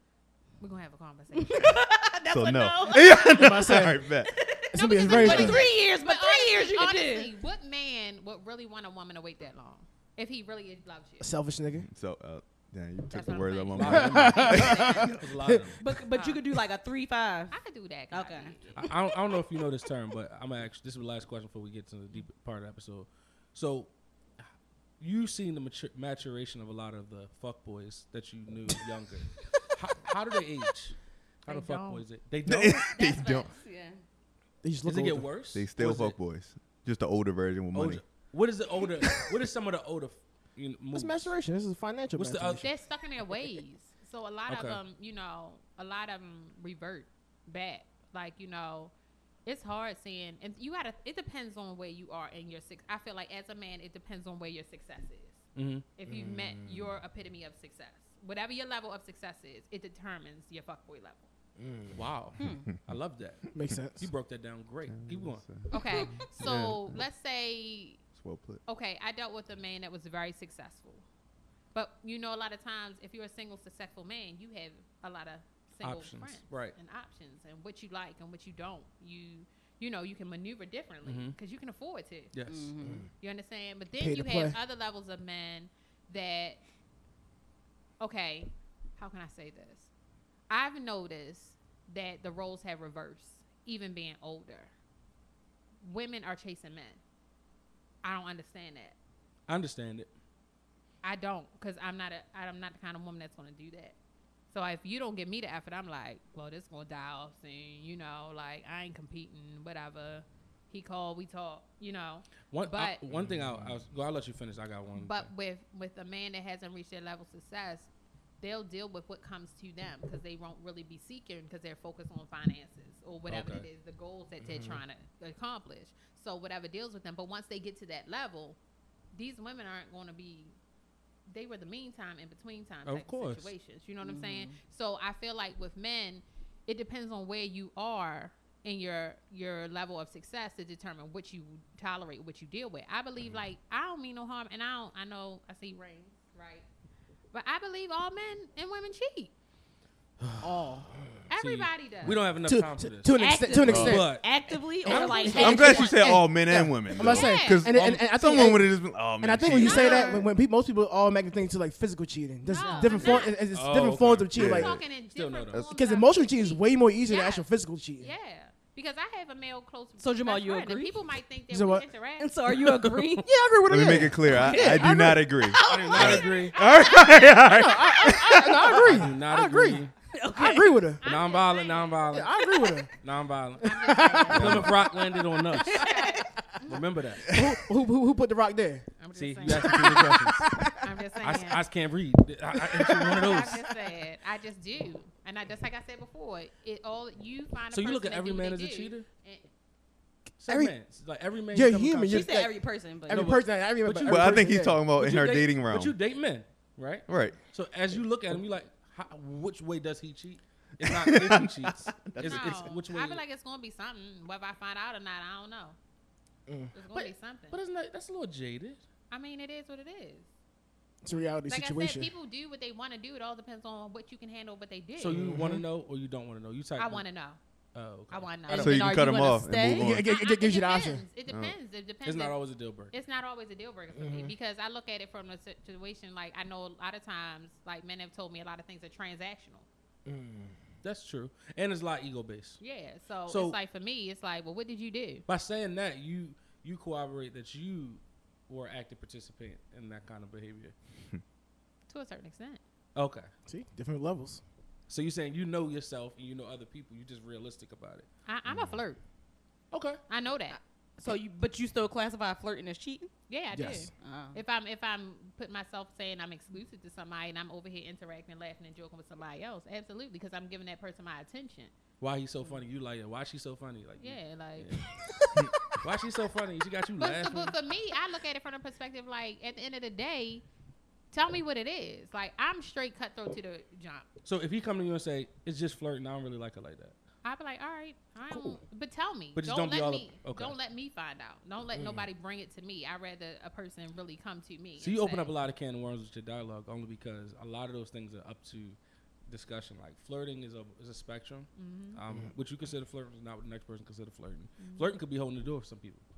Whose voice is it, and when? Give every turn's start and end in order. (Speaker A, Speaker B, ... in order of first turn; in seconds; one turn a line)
Speaker A: 0.6-1.9
Speaker B: 1.3-7.3
Speaker C: 2.3-4.3
Speaker D: 3.2-4.1
Speaker A: 4.7-11.3
Speaker D: 4.7-5.6
Speaker C: 5.2-5.5
Speaker D: 11.2-11.9
Speaker C: 11.7-15.1
Speaker A: 13.1-15.1
Speaker E: 13.8-15.8
Speaker D: 13.9-15.7
Speaker B: 15.8-17.6
Speaker A: 16.1-16.4
Speaker A: 17.5-19.0
Speaker B: 18.1-18.6
Speaker E: 18.8-23.9
Speaker E: 25.0-32.8
Speaker A: 31.5-32.0
Speaker C: 32.5-33.5
Speaker B: 32.9-34.0
Speaker D: 34.6-35.3
Speaker E: 34.9-36.2
Speaker C: 35.5-38.0
Speaker E: 37.7-41.3
Speaker D: 40.9-42.7
Speaker E: 42.1-42.7
Speaker A: 42.6-48.9
Speaker E: 44.5-44.8
Speaker A: 49.5-55.4
Speaker E: 55.5-55.9
Speaker A: 56.0-61.3
Speaker D: 56.1-56.3
Speaker C: 56.2-57.0
Speaker D: 61.6-62.0
Speaker E: 61.9-65.5
Speaker B: 62.4-62.7
Speaker D: 63.5-64.1
Speaker C: 64.9-67.0
Speaker A: 65.7-68.0
Speaker C: 68.1-68.6
Speaker A: 68.7-71.0
Speaker A: 71.7-82.3
Speaker E: 75.8-76.8
Speaker E: 81.0-81.3
Speaker E: 82.3-82.7
Speaker B: 82.5-83.1
Speaker A: 83.2-86.6
Speaker D: 84.0-84.6
Speaker A: 88.0-89.9
Speaker A: 90.5-94.7
Speaker A: 95.8-97.0
Speaker A: 98.0-99.0
Speaker E: 99.5-100.1
Speaker A: 101.0-104.0
Speaker A: 104.5-113.0
Speaker E: 112.5-115.3
Speaker C: 113.1-113.8
Speaker A: 115.0-117.9
Speaker A: 118.4-128.6
Speaker E: 123.3-123.7
Speaker A: 129.1-130.6
Speaker A: 131.3-146.7
Speaker E: 132.9-133.5
Speaker B: 134.0-134.6
Speaker A: 147.3-149.3
Speaker D: 150.3-151.1
Speaker A: 151.3-152.2
Speaker E: 151.3-154.3
Speaker D: 152.2-154.2
Speaker B: 153.2-156.1
Speaker C: 153.7-154.0
Speaker D: 154.8-164.8
Speaker E: 154.8-155.6
Speaker C: 155.4-160.2
Speaker A: 157.0-157.8
Speaker A: 159.5-160.3
Speaker A: 162.5-163.4
Speaker B: 162.6-163.4
Speaker E: 163.5-164.5
Speaker C: 164.3-164.8
Speaker A: 164.4-167.5
Speaker E: 165.1-165.6
Speaker D: 165.7-168.1
Speaker A: 168.0-172.3
Speaker B: 170.0-171.0
Speaker D: 171.5-171.9
Speaker B: 172.2-173.3
Speaker E: 172.5-173.2
Speaker D: 173.2-175.3
Speaker C: 173.7-179.1
Speaker B: 174.4-174.9
Speaker B: 175.5-176.8
Speaker E: 175.6-176.6
Speaker A: 176.6-177.1
Speaker D: 177.4-179.8
Speaker E: 178.7-179.9
Speaker B: 180.0-180.8
Speaker D: 180.3-181.0
Speaker A: 181.0-182.8
Speaker E: 181.0-185.9
Speaker D: 182.1-182.9
Speaker A: 183.6-184.9
Speaker D: 183.6-185.4
Speaker C: 184.3-184.8
Speaker A: 185.6-186.9
Speaker B: 185.6-186.3
Speaker E: 186.7-187.3
Speaker C: 187.3-187.6
Speaker D: 187.3-188.9
Speaker A: 189.0-190.0
Speaker E: 189.1-190.5
Speaker D: 189.4-190.8
Speaker A: 190.8-191.7
Speaker E: 191.2-193.6
Speaker D: 192.6-193.2
Speaker A: 193.1-199.5
Speaker E: 197.7-199.1
Speaker E: 200.4-202.4
Speaker D: 200.5-200.7
Speaker D: 201.5-204.8
Speaker B: 202.1-203.4
Speaker E: 203.1-213.2
Speaker C: 204.0-206.0
Speaker C: 207.1-207.4
Speaker C: 210.8-212.8
Speaker A: 212.2-215.8
Speaker D: 216.5-216.7
Speaker A: 216.7-217.6
Speaker E: 216.9-218.8
Speaker A: 219.1-220.3
Speaker D: 221.0-222.1
Speaker A: 221.4-225.2
Speaker E: 225.0-227.0
Speaker D: 225.1-225.6
Speaker A: 226.8-227.4
Speaker E: 227.7-228.9
Speaker A: 228.1-228.9
Speaker B: 228.5-230.0
Speaker C: 228.6-230.1
Speaker D: 229.7-231.0
Speaker A: 230.0-232.4
Speaker C: 231.3-231.6
Speaker E: 232.0-232.9
Speaker A: 232.9-239.7
Speaker D: 233.9-234.3
Speaker D: 240.1-240.5
Speaker E: 240.8-242.6
Speaker A: 242.6-245.2
Speaker E: 243.3-243.6
Speaker E: 245.3-250.7
Speaker A: 251.9-252.6
Speaker E: 252.9-253.3
Speaker D: 253.5-254.4
Speaker E: 254.9-258.1
Speaker A: 258.3-259.0
Speaker E: 259.7-260.0
Speaker A: 260.1-260.6
Speaker B: 260.5-263.1
Speaker A: 263.3-271.7
Speaker D: 263.5-263.9
Speaker B: 264.0-264.4
Speaker E: 272.0-274.9
Speaker A: 274.0-274.8
Speaker E: 275.8-277.6
Speaker A: 277.0-280.4
Speaker A: 281.1-284.1
Speaker E: 284.2-286.9
Speaker A: 287.2-295.3
Speaker E: 289.4-290.5
Speaker D: 291.8-292.1
Speaker E: 294.8-298.8
Speaker E: 299.3-306.0
Speaker A: 301.6-302.0
Speaker A: 304.6-305.0